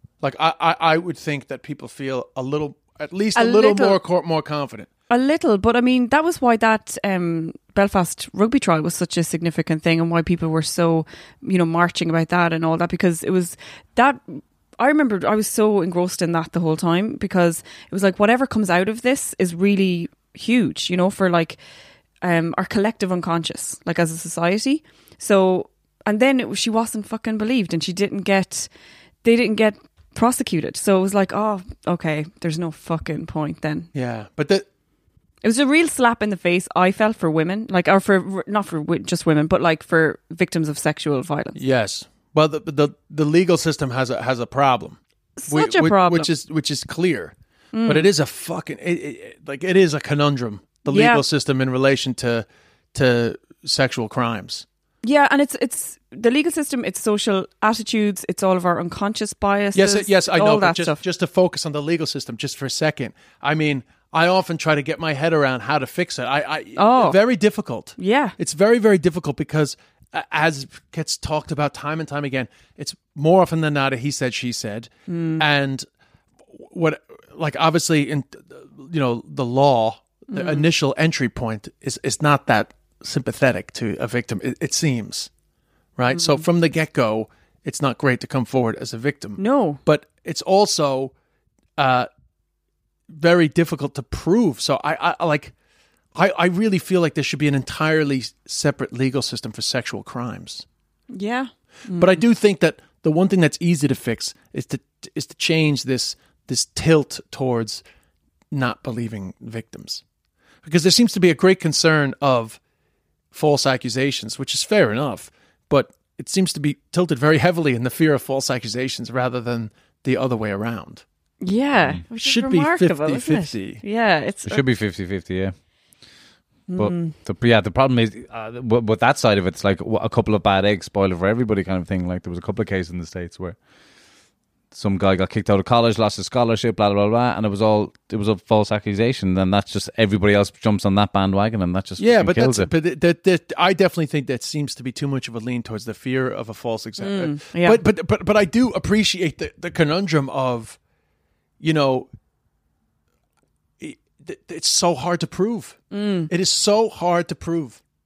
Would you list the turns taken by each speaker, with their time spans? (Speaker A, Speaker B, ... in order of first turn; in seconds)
Speaker A: 0.2-4.9, 33.9-34.6, 41.5-47.3, 47.9-54.6, 59.7-75.8, 76.5-85.3, 86.0-91.1, 91.8-92.1, 93.1-95.5, 96.1-100.6, 102.0-107.8, 108.5-110.0, 110.6-112.6, 113.3-121.0, 122.2-123.8, 142.0-150.8, 151.6-152.1, 153.8-157.8
Speaker B: 3.4-4.0, 5.1-21.6, 22.2-28.7, 29.2-33.9, 35.4-41.6, 45.4-46.3, 47.7-48.1, 50.9-51.2, 55.0-61.0, 66.8-67.2, 68.0-68.3, 75.1-75.5, 80.3-80.7, 86.1-86.4, 89.4-89.8, 101.1-102.2, 121.4-124.6, 126.7-127.1, 147.0-147.8, 155.9-156.3
Speaker C: 124.5-125.5, 126.8-133.6, 134.7-142.7